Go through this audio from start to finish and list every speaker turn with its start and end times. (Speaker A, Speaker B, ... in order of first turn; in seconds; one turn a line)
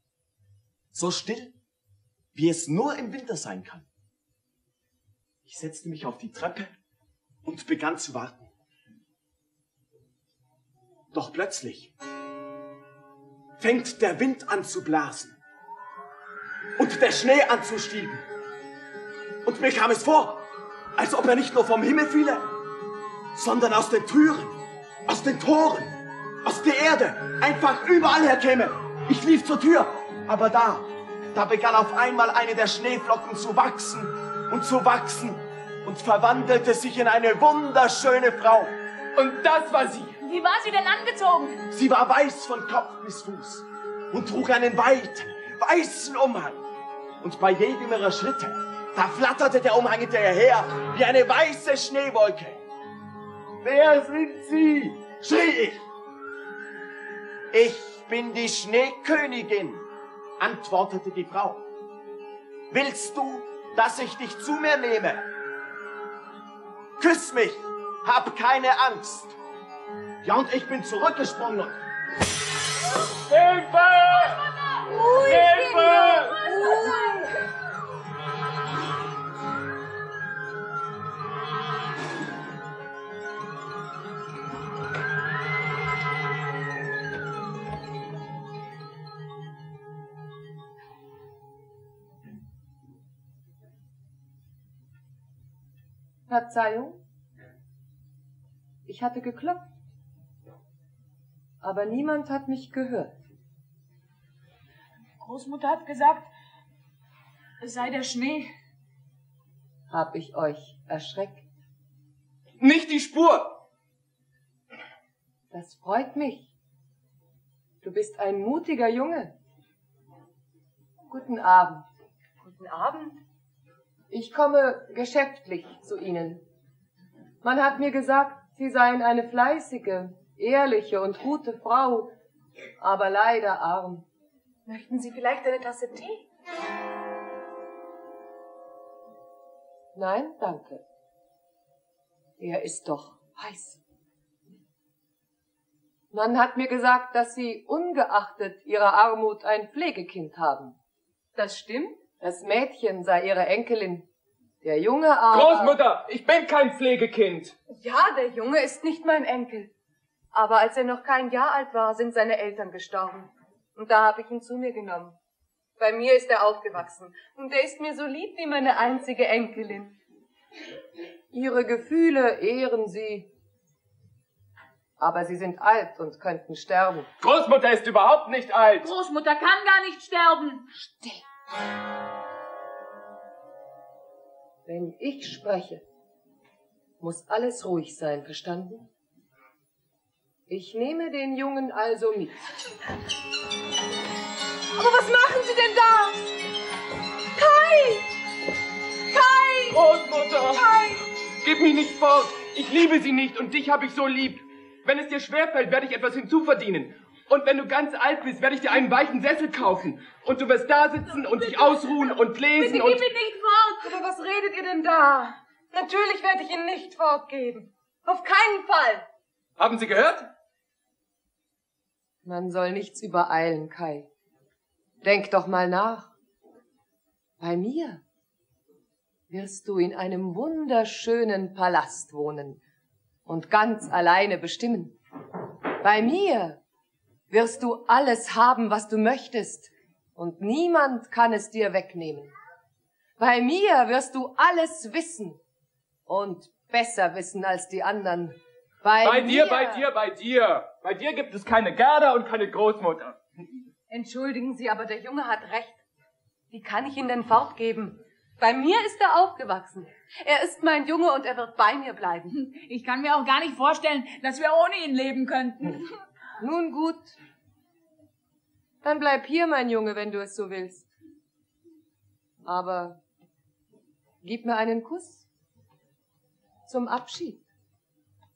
Speaker A: 0.9-1.5
Speaker A: 2.3-3.9
Speaker A: 5.5-6.8
Speaker A: 7.5-8.5
Speaker A: 11.1-11.9
Speaker A: 13.6-15.4
Speaker A: 16.8-18.2
Speaker A: 19.4-20.4
Speaker A: 21.0-22.4
Speaker A: 23.3-38.8
Speaker B: 39.2-40.2
Speaker C: 40.2-41.6
Speaker A: 41.7-46.6
Speaker A: 47.2-52.6
Speaker A: 53.6-55.8
Speaker A: 57.5-59.9
Speaker A: 60.4-61.6
Speaker A: 62.7-65.2
Speaker A: 67.0-69.4
Speaker A: 70.2-71.8
Speaker B: 73.2-74.4
Speaker D: 74.9-77.3
Speaker B: 75.2-76.4
Speaker C: 75.7-77.0
Speaker E: 96.3-97.0
Speaker E: 98.9-99.7
Speaker E: 101.6-103.2
Speaker C: 105.2-106.3
Speaker C: 107.6-108.5
Speaker E: 109.9-111.4
Speaker B: 112.6-113.6
Speaker E: 115.5-116.5
Speaker E: 117.8-119.4
Speaker E: 121.1-121.8
Speaker D: 122.5-123.2
Speaker E: 124.1-126.5
Speaker E: 127.4-132.1
Speaker E: 132.8-134.1
Speaker D: 134.7-136.2
Speaker E: 139.9-140.8
Speaker E: 142.4-143.8
Speaker E: 146.1-150.8
Speaker D: 151.4-152.1
Speaker E: 152.1-154.1
Speaker E: 154.6-155.8
Speaker B: 155.3-157.6
Speaker D: 157.7-159.7
Speaker D: 160.3-165.2
Speaker D: 165.8-170.0
Speaker E: 171.3-173.3
Speaker E: 175.0-177.1
Speaker B: 177.2-178.9
Speaker C: 178.8-181.2
Speaker E: 184.7-185.8
Speaker E: 187.0-188.9
Speaker E: 190.5-192.4
Speaker D: 194.8-196.2
Speaker D: 197.3-198.1
Speaker D: 199.1-201.1
Speaker B: 199.7-200.7
Speaker B: 201.4-213.0
Speaker C: 211.5-211.8
Speaker C: 212.6-214.0
Speaker D: 213.8-219.1
Speaker B: 219.6-220.3
Speaker E: 222.2-224.1
Speaker E: 225.0-226.1
Speaker E: 227.4-228.0
Speaker E: 229.3-232.6
Speaker E: 233.3-235.0
Speaker E: 235.8-236.6
Speaker E: 237.3-242.3
Speaker E: 243.2-245.4
Speaker E: 246.1-249.9
Speaker B: 249.0-253.2
Speaker D: 253.9-255.8
Speaker D: 256.5-262.3
Speaker C: 262.3-265.9
Speaker E: 266.4-267.1
Speaker E: 268.8-270.9
Speaker E: 272.4-273.0
Speaker E: 274.2-275.2
Speaker E: 276.7-277.4